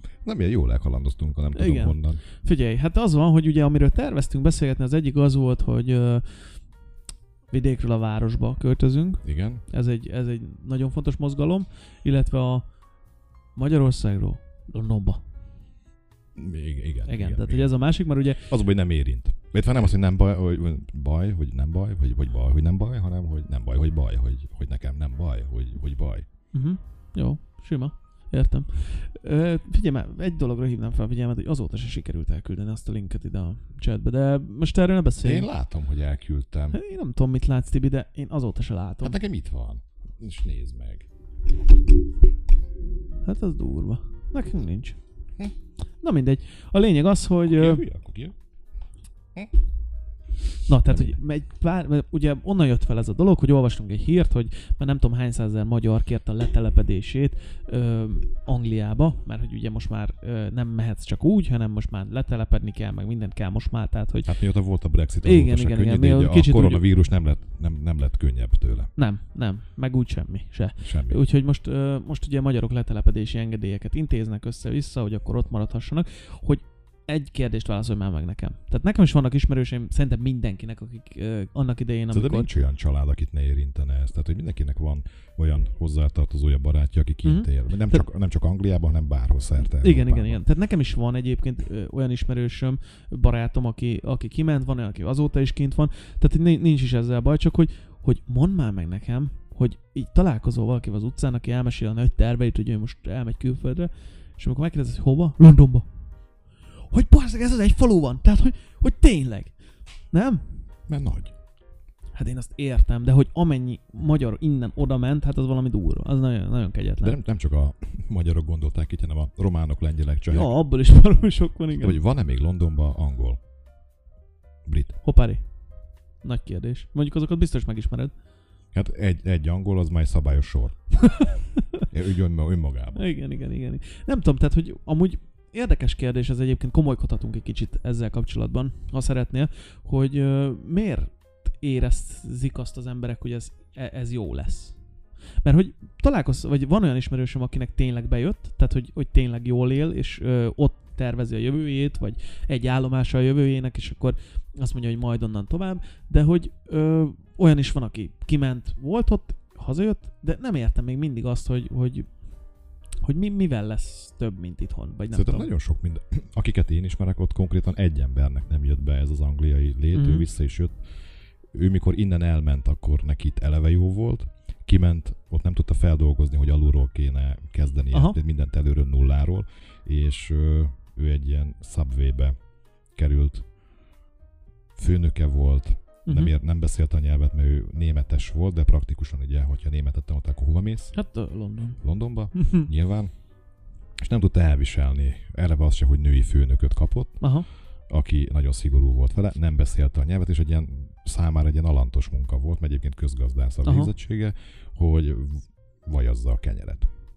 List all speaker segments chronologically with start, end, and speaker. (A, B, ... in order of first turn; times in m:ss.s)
0:00.2-0:02.2 A
0:01.6-0:06.4 B
0:07.5-0:12.7 B
0:09.2-0:09.6 A
0:13.6-0:15.2 B
0:16.4-0:17.7 A
0:17.1-0:18.5 B
0:18.5-0:26.3 A
0:26.5-0:35.5 B
0:35.2-0:36.8 A
0:36.7-0:39.2 B
0:39.0-0:41.1 A
0:43.2-0:45.0 B
0:46.0-0:47.8 B
0:47.5-0:48.4 A
0:50.7-1:04.3 B
0:50.9-0:51.2 A
1:04.2-1:08.9 A
1:05.2-1:06.8 B
1:09.0-1:22.5 B
1:10.8-1:11.2 A
1:22.1-1:30.4 A
1:27.2-1:28.0 B
1:29.6-1:45.9 B
1:46.9-1:49.5 B
1:50.1-1:50.5 B
1:50.9-1:51.3 A
1:52.1-1:57.2 B
1:57.0-2:00.5 A
2:00.3-2:02.0 B
2:01.8-2:03.4 A
2:04.7-2:05.0 A
2:05.0-2:05.4 B
2:06.2-2:08.1 B
2:08.7-2:10.8 A
2:11.0-2:11.9 B
2:11.8-2:13.0 A
2:13.0-2:24.8 B
2:25.4-2:42.1 B
2:43.0-2:45.5 B
2:45.1-2:50.8 A
2:49.9-2:50.3 B
2:51.5-3:02.4 A
2:57.9-2:58.2 B
3:03.0-3:03.5 A
3:04.8-3:11.0 A
3:06.1-3:06.3 B
3:10.9-3:11.8 B
3:11.8-3:13.1 A
3:12.4-3:12.7 B
3:14.0-3:17.2 A
3:17.2-3:17.5 B
3:17.9-3:26.9 A
3:23.6-3:23.9 B